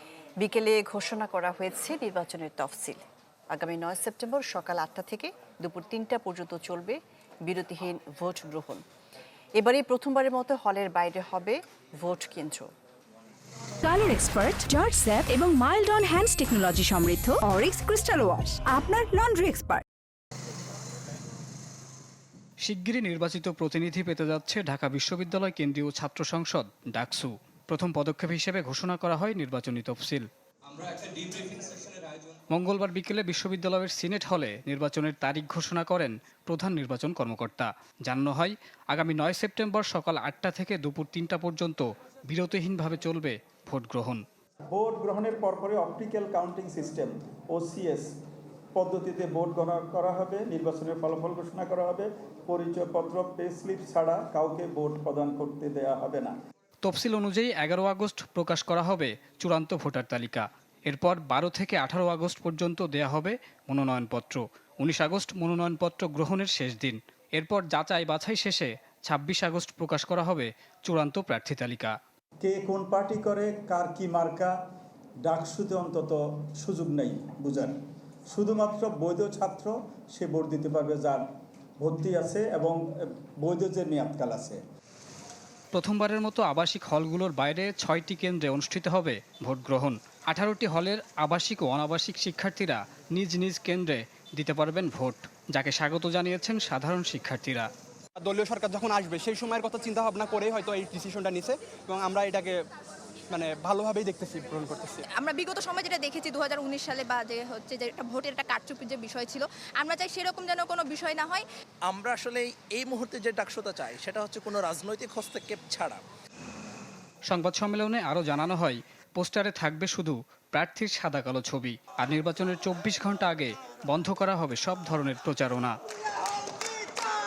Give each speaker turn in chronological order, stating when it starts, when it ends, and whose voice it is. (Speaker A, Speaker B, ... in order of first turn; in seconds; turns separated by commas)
Speaker A: 0.4-8.8, Speaker A: 9.6-12.7, Speaker B: 13.8-19.8, Speaker C: 22.6-30.3, Speaker C: 32.5-44.2, Speaker D: 44.7-48.1, Speaker D: 48.8-56.3, Speaker C: 56.8-72.0, Speaker D: 72.4-74.5, Speaker D: 75.2-77.8, Speaker D: 78.3-81.2, Speaker D: 81.8-84.6, Speaker C: 85.7-97.7, Speaker E: 98.2-102.5, Speaker E: 103.3-105.0, Speaker F: 105.1-111.5, Speaker G: 111.9-116.0, Speaker C: 117.3-125.7